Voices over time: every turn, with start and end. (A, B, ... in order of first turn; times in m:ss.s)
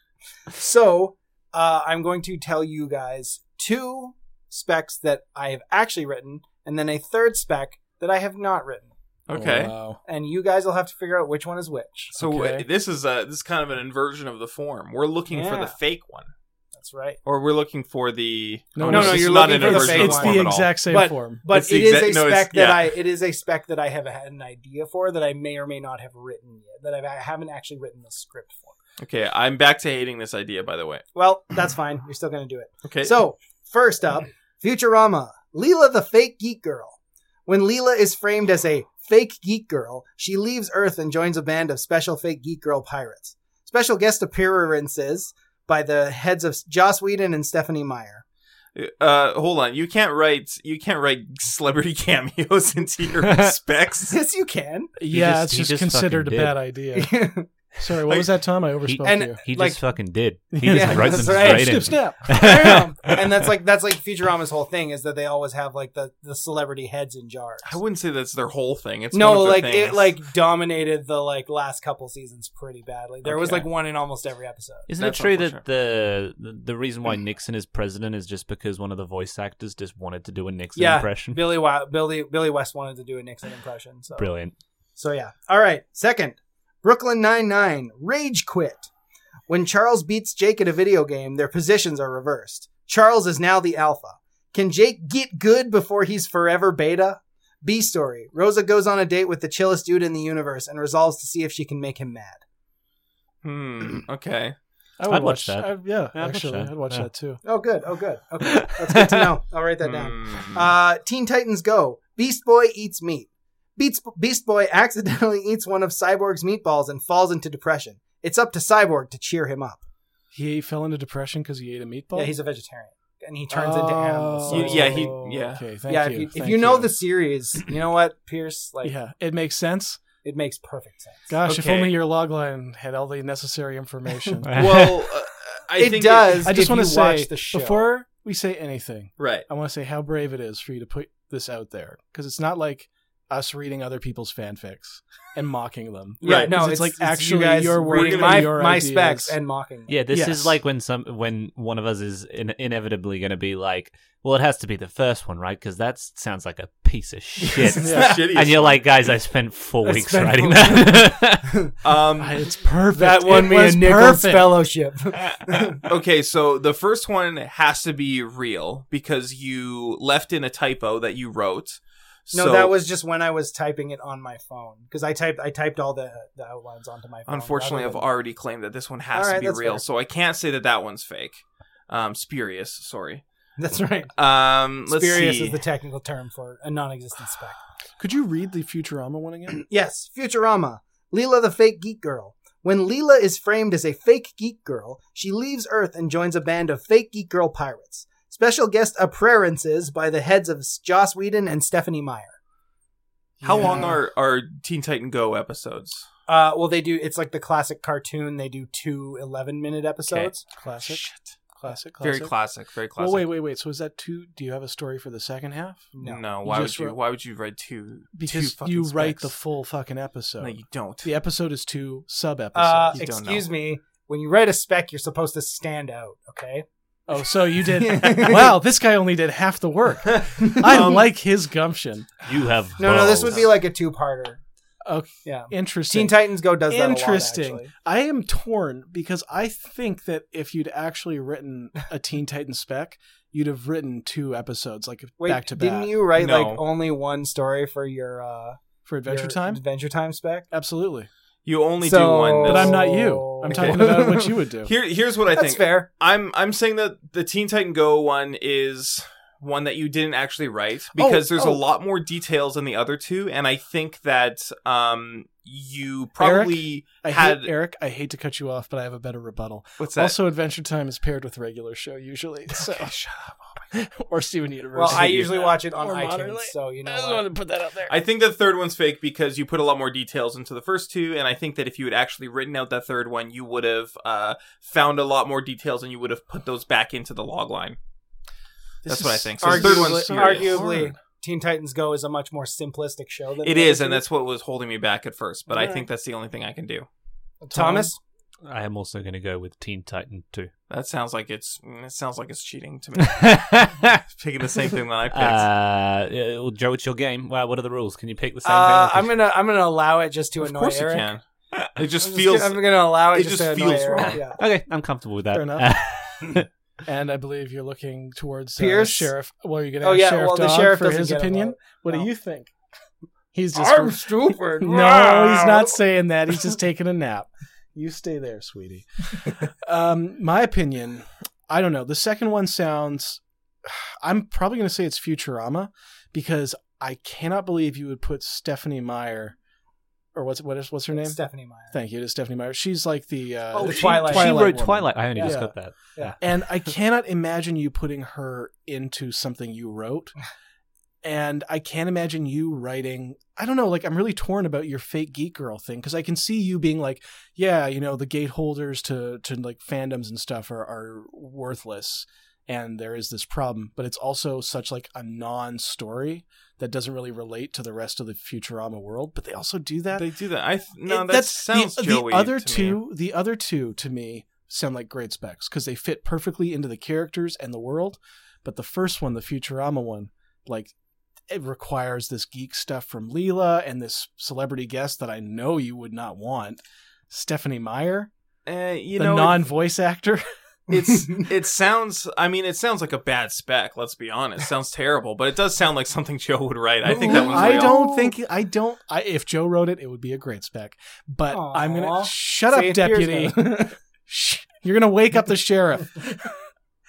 0:00.5-0:08.9 A
0:09.3-0:09.7 B
0:09.3-0:10.0 C
0:10.0-0:12.1 A
0:12.1-0:12.6 C
0:12.1-0:16.3 B
0:15.3-0:15.8 A
0:16.8-0:17.2 A
0:17.2-0:20.7 B
0:18.8-0:21.4 C
0:18.8-0:28.7 A
0:21.5-0:22.9 B
0:29.0-0:31.0 B
0:31.1-0:48.2 A
0:32.8-0:33.1 B
0:48.7-0:54.2 B
0:53.2-0:53.5 D
0:54.1-0:54.9 A
0:55.0-0:57.1 C
0:55.1-0:56.6 D
0:56.9-0:57.5 A
0:57.7-0:59.4 C
0:58.8-1:03.2 D
0:59.0-0:59.8 A
1:00.5-1:02.8 C
1:00.6-1:07.8 A
1:07.6-1:10.1 B
1:09.1-1:14.9 A
1:13.2-1:13.6 B
1:14.9-1:21.4 D
1:15.0-1:15.6 B
1:20.7-1:24.3 A
1:24.2-1:24.5 D
1:25.0-1:28.9 A
1:29.5-1:42.4 A
1:43.4-1:44.6 B
1:45.0-1:47.4 C
1:45.1-1:47.1 D
1:47.4-1:59.8 A
1:48.4-1:49.3 D
1:49.8-1:50.6 B
2:00.3-2:02.3 C
2:02.1-2:05.2 A
2:03.5-2:06.9 C
2:04.5-2:05.6 B
2:05.9-2:08.9 A
2:08.8-2:10.0 C
2:10.2-2:11.3 A
2:11.3-2:14.6 C
2:11.4-2:11.9 B
2:14.4-2:15.0 D
2:14.5-2:16.5 B
2:15.8-2:17.8 A
2:16.4-2:29.4 C
2:19.2-2:19.4 B
2:26.2-2:29.9 A
2:26.2-2:26.6 B
2:27.9-2:28.5 B
2:29.9-2:41.5 D
2:30.1-2:30.6 C
2:37.6-2:38.8 B
2:37.8-2:38.2 C
2:39.8-2:41.7 A
2:41.8-2:42.4 B
2:42.2-2:44.6 C
2:42.9-2:45.8 A
2:45.8-2:52.8 B
2:52.3-2:58.0 A
2:57.3-3:03.2 B
2:59.1-2:59.8 A
3:03.6-3:04.1 A
3:04.2-3:05.6 B
3:04.9-3:07.6 A
3:08.0-3:09.6 C
3:09.6-3:22.4 A
3:23.4-3:24.0 C
3:23.4-3:26.0 B
3:23.6-3:23.9 A
3:26.3-3:30.4 A
3:30.6-3:32.3 C
3:30.8-3:31.3 B
3:32.0-3:33.3 B
3:33.0-3:35.9 C
3:35.9-3:36.2 A
3:36.0-3:39.3 B
3:36.4-3:37.0 C
3:38.1-3:43.0 C
3:40.4-3:41.1 B
3:42.5-3:46.6 A
3:42.9-3:43.5 B
3:47.1-3:52.2 C
3:47.6-3:48.5 A
3:50.4-3:50.7 A
3:50.6-3:51.0 B
3:52.2-3:53.5 D
3:52.8-3:54.4 A
3:54.8-4:05.9 C
3:55.2-3:57.7 A
4:05.2-4:10.4 A
4:06.2-4:06.6 B
4:08.8-4:09.6 C
4:10.5-4:11.1 C
4:11.4-4:12.9 B
4:11.8-4:14.3 A
4:12.4-4:14.7 C
4:13.5-4:27.5 B
4:15.3-4:15.9 A
4:20.9-4:21.6 C
4:26.2-4:32.9 C
4:29.8-4:30.2 B
4:32.6-4:33.6 B
4:33.7-4:37.9 C
4:34.7-4:37.3 A
4:37.9-4:47.8 B
4:48.8-4:51.0 C
4:48.8-4:50.6 B
4:49.4-4:54.0 A
4:53.4-4:56.9 B
4:55.5-4:55.8 A
4:57.4-4:58.0 A
4:57.5-4:57.9 C
4:58.4-5:00.5 D
5:00.7-5:03.4 B
5:03.0-5:04.0 D
5:04.1-5:05.5 B
5:05.1-5:09.1 D
5:08.4-5:11.1 A
5:10.4-5:14.2 B
5:12.0-5:14.4 A
5:14.2-5:16.4 D
5:15.3-5:15.7 C
5:16.8-5:22.5 C
5:18.6-5:19.1 A
5:19.8-5:22.1 A
5:23.3-5:39.3 C
5:23.5-5:25.8 A
5:40.1-5:41.2 C
5:40.9-5:41.7 A
5:41.7-5:45.6 C
5:43.5-5:44.5 A
5:43.6-5:46.2 D
5:45.2-5:45.4 A
5:46.2-5:50.1 C
5:51.0-6:10.1 C
6:10.0-6:12.8 B
6:10.8-6:20.7 C
6:21.3-6:28.1 C
6:28.4-6:29.4 B
6:28.9-6:30.2 C
6:30.7-6:37.8 B
6:36.8-6:38.1 A
6:37.0-6:46.3 C
6:41.3-6:43.7 A